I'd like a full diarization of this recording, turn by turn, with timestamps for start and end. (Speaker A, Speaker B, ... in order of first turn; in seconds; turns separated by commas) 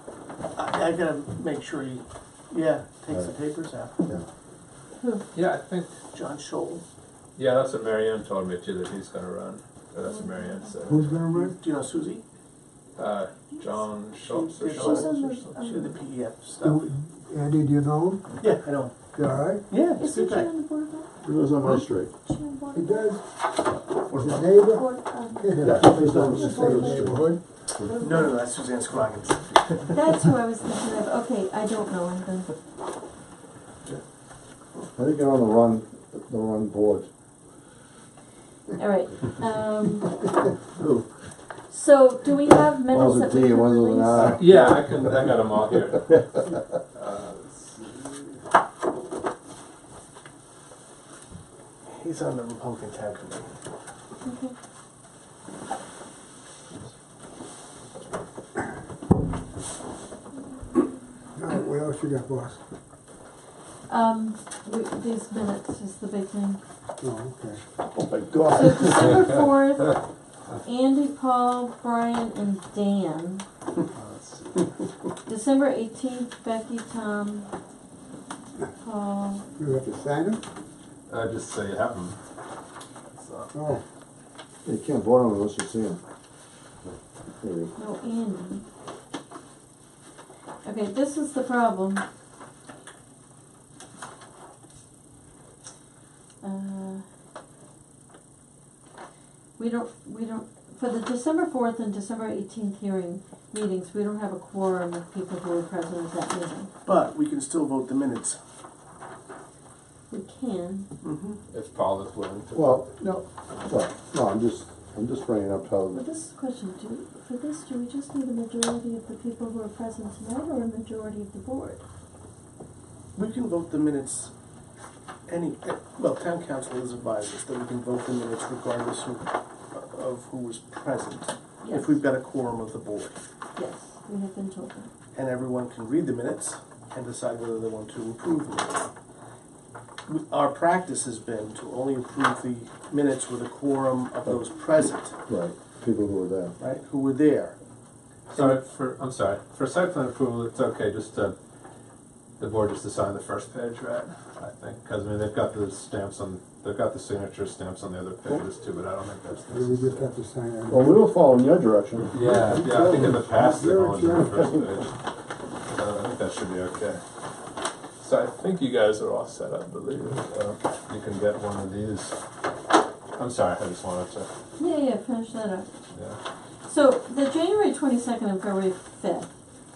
Speaker A: 0.5-3.9, Speaker B: 5.0-5.2, Speaker C: 5.3-5.9, Speaker A: 6.1-6.8, Speaker C: 7.3-11.2, Speaker B: 10.0-10.7, Speaker D: 10.8-11.6, Speaker A: 11.3-12.2, Speaker C: 12.9-15.2, Speaker A: 14.2-16.8, Speaker B: 14.7-16.0, Speaker D: 16.6-18.4, Speaker A: 18.4-19.0, Speaker D: 19.1-19.7, Speaker A: 19.7-20.5, Speaker B: 19.9-21.1, Speaker E: 21.2-22.1, Speaker B: 21.6-23.1, Speaker D: 22.7-23.2, Speaker A: 24.1-24.4, Speaker D: 24.1-27.4, Speaker B: 24.5-27.2, Speaker E: 25.6-27.3, Speaker E: 27.8-28.1, Speaker B: 27.8-28.4, Speaker A: 28.0-30.0, Speaker B: 29.9-32.5, Speaker E: 35.0-37.1, Speaker B: 38.8-40.3, Speaker B: 41.7-44.5, Speaker E: 42.9-44.5, Speaker C: 44.1-46.4, Speaker C: 46.9-48.3, Speaker A: 51.9-53.5, Speaker B: 54.2-54.5, Speaker D: 61.4-62.6, Speaker B: 63.9-66.6, Speaker D: 67.0-67.6, Speaker E: 67.8-69.3, Speaker B: 68.5-70.0, Speaker B: 70.6-73.4, Speaker C: 73.9-74.7, Speaker B: 75.2-77.5, Speaker B: 78.8-79.4, Speaker D: 79.6-80.4, Speaker C: 81.1-82.2, Speaker C: 83.1-83.5, Speaker D: 83.5-83.8, Speaker E: 84.6-86.0, Speaker E: 87.4-87.7, Speaker B: 87.8-88.6, Speaker B: 90.6-92.0, Speaker B: 96.4-97.0, Speaker B: 99.6-106.7, Speaker A: 106.8-108.4, Speaker B: 110.1-110.9, Speaker A: 111.0-111.4, Speaker C: 111.5-112.8, Speaker E: 112.5-116.0, Speaker B: 115.9-121.8, Speaker A: 123.2-124.3, Speaker A: 125.3-133.2, Speaker B: 131.6-132.0, Speaker B: 133.6-134.9, Speaker A: 135.1-138.9, Speaker A: 140.1-145.2, Speaker E: 145.3-146.6, Speaker A: 146.6-147.6, Speaker C: 148.3-151.3, Speaker A: 148.3-148.6, Speaker C: 152.4-160.1, Speaker D: 159.5-161.1, Speaker E: 160.7-162.4, Speaker C: 162.1-164.9, Speaker D: 162.2-164.5, Speaker E: 164.2-164.7, Speaker C: 165.7-167.0, Speaker C: 168.0-172.2, Speaker C: 173.2-174.3, Speaker B: 174.6-175.7, Speaker C: 175.9-176.2, Speaker B: 176.7-179.3